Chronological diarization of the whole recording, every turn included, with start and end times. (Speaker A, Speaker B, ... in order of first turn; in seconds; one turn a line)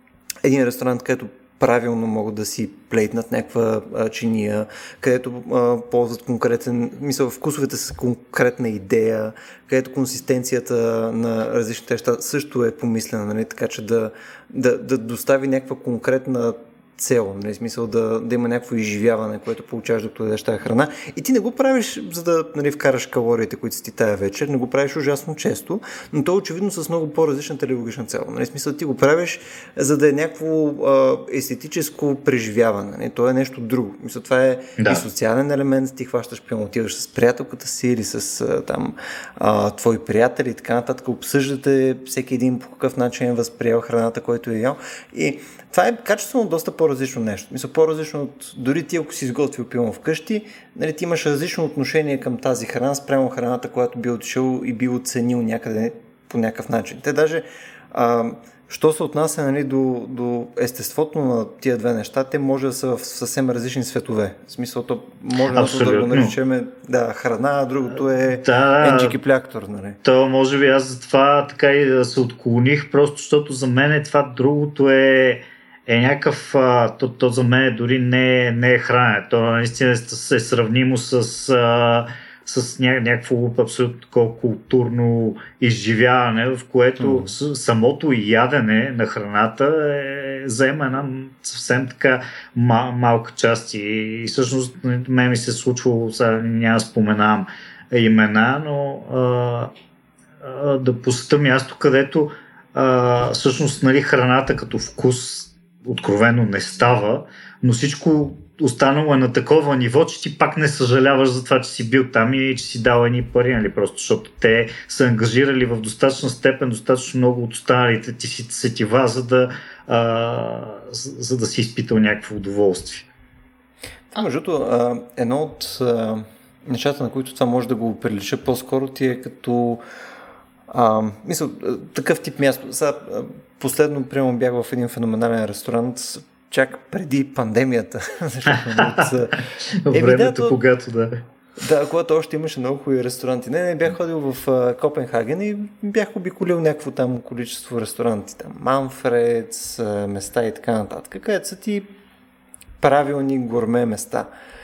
Speaker A: 0.4-70.0
Speaker B: 34.8-35.1
Speaker B: 65.5-66.3
Speaker B: 68.3-69.2
Speaker B: 70.0-99.7
Speaker A: 87.0-87.3
Speaker B: 100.4-123.1
Speaker A: 124.1-129.8
Speaker A: 130.7-140.6
Speaker B: 138.5-139.1
Speaker B: 139.7-141.2
Speaker A: 141.6-151.9
Speaker A: 152.8-154.3